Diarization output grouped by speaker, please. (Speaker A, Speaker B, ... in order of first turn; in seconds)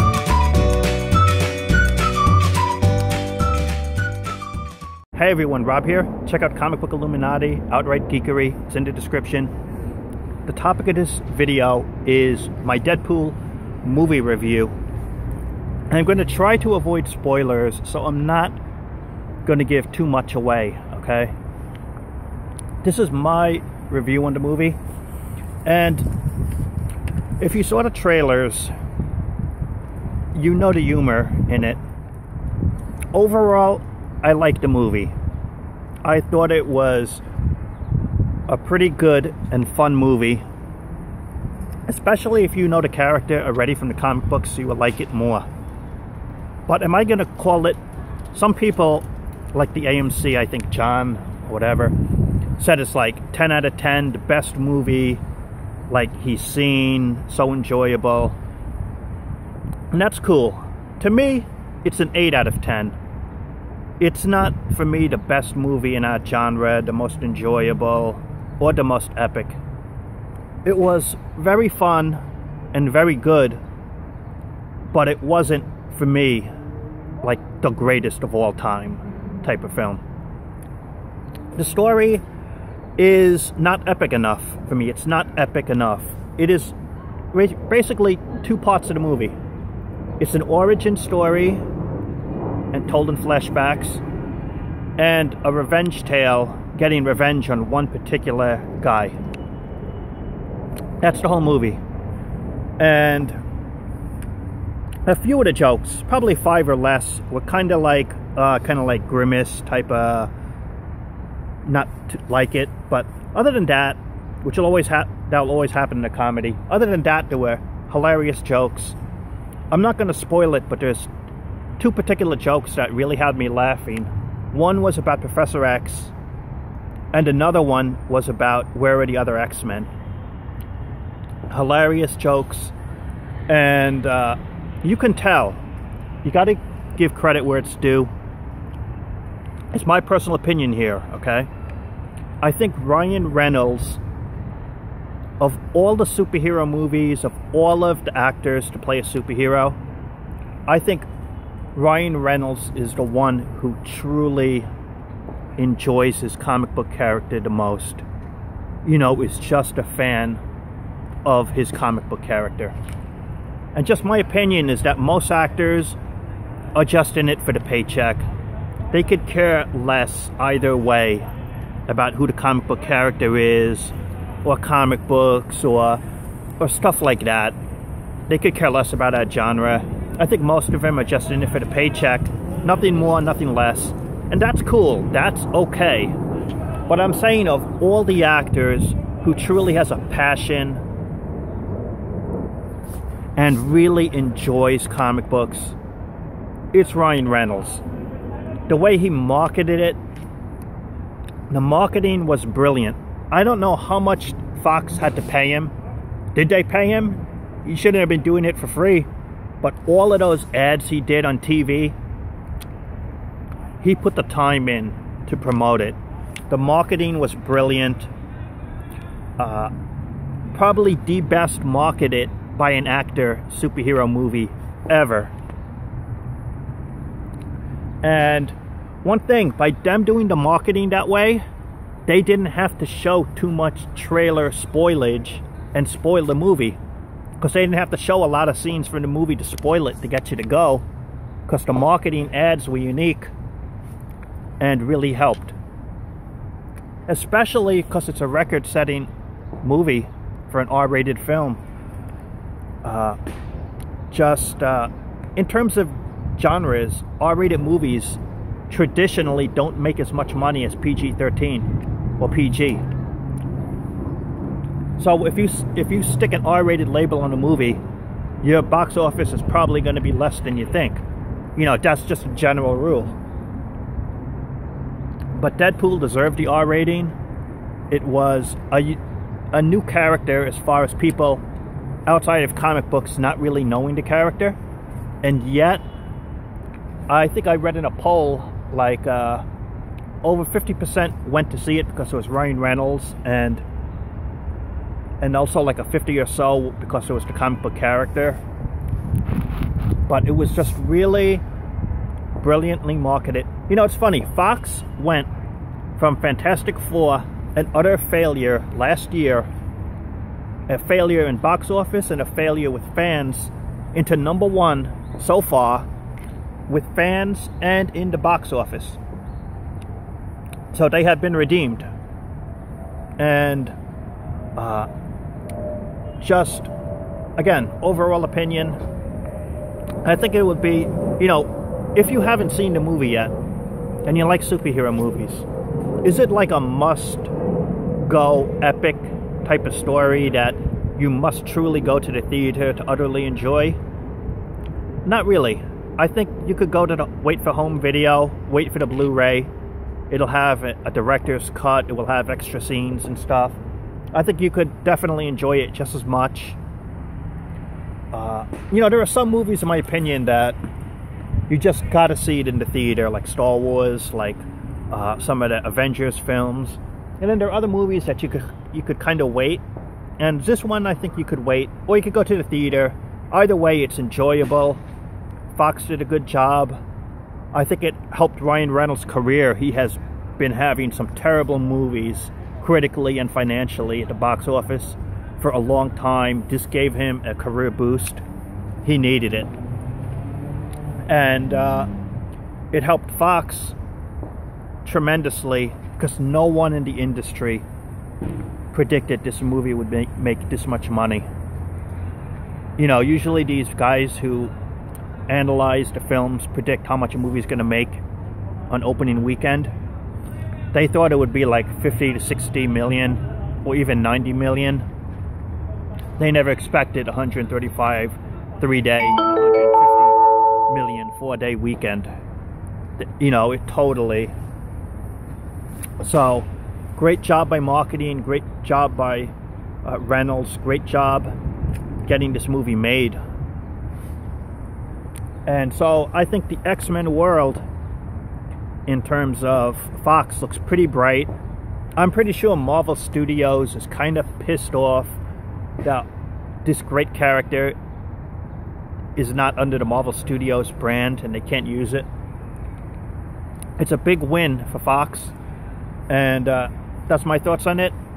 Speaker A: 5.2-9.5, 10.5-14.7, 15.9-18.6, 19.4-21.3, 22.8-24.8, 25.6-26.1, 27.4-28.7, 30.3-31.8, 33.1-35.1, 36.0-37.2, 38.5-40.4, 41.9-45.5, 46.7-47.8, 48.3-52.0, 52.6-55.2, 55.9-58.4, 59.9-63.0, 64.0-69.6, 70.7-72.2, 72.7-73.6, 74.9-76.5, 77.2-80.0, 81.6-82.2, 83.0-86.7, 87.3-89.4, 90.2-91.6, 92.7-94.0, 95.0-99.2, 101.0-101.8, 102.8-103.4, 105.1-110.3, 111.6-119.0, 119.7-121.1, 121.8-126.1, 127.1-129.9, 131.5-132.7, 133.5-135.6, 136.2-138.1, 139.7-141.5, 142.4-144.0, 145.4-149.8, 150.7-151.1, 151.8-154.7, 155.6-158.0, 158.8-160.4, 161.2-162.7, 163.8-166.0, 166.8-168.3, 168.9-171.3, 171.9-176.0, 176.6-177.6, 178.3-186.2, 186.9-190.8, 193.4-195.8, 196.7-197.8, 198.7-200.0, 201.5-205.7, 206.3-209.1, 209.6-211.9, 213.8-216.0, 216.5-218.1, 219.4-219.7, 220.5-225.3, 228.0-231.4, 232.1-236.8, 237.4-240.8, 241.5-243.3, 244.6-245.6, 247.1-249.1, 249.6-251.6, 252.8-253.2, 254.1-261.7, 262.2-262.8, 265.0-267.8, 268.4-271.0, 271.6-273.2, 275.3-277.1, 277.9-279.0, 279.5-281.4, 282.1-284.6, 285.2-285.8, 287.1-289.4, 290.2-293.6, 295.2-298.4, 300.1-301.4, 302.4-305.3, 306.0-309.5, 310.7-315.9, 316.7-319.0, 320.7-321.9, 323.2-323.7, 324.6-324.9, 326.2-326.7, 327.4-328.8, 330.0-333.3, 334.1-335.5, 336.0-337.3, 338.0-343.8, 345.0-349.5, 350.1-353.6, 354.1-356.6, 358.1-360.6, 361.5-369.6, 370.2-374.8, 375.5-376.8, 377.5-388.2, 388.8-389.5, 391.1-391.9, 392.7-393.8, 394.8-397.6, 398.7-401.3, 402.8-404.5, 405.3-408.0, 408.7-409.7, 410.7-414.9, 416.2-420.2, 420.7-422.1, 423.0-424.3, 426.0-431.3, 432.0-433.2, 435.5-437.6, 438.9-441.3, 442.0-445.2, 446.6-447.8, 449.2-452.1, 453.8-455.4, 456.1-457.9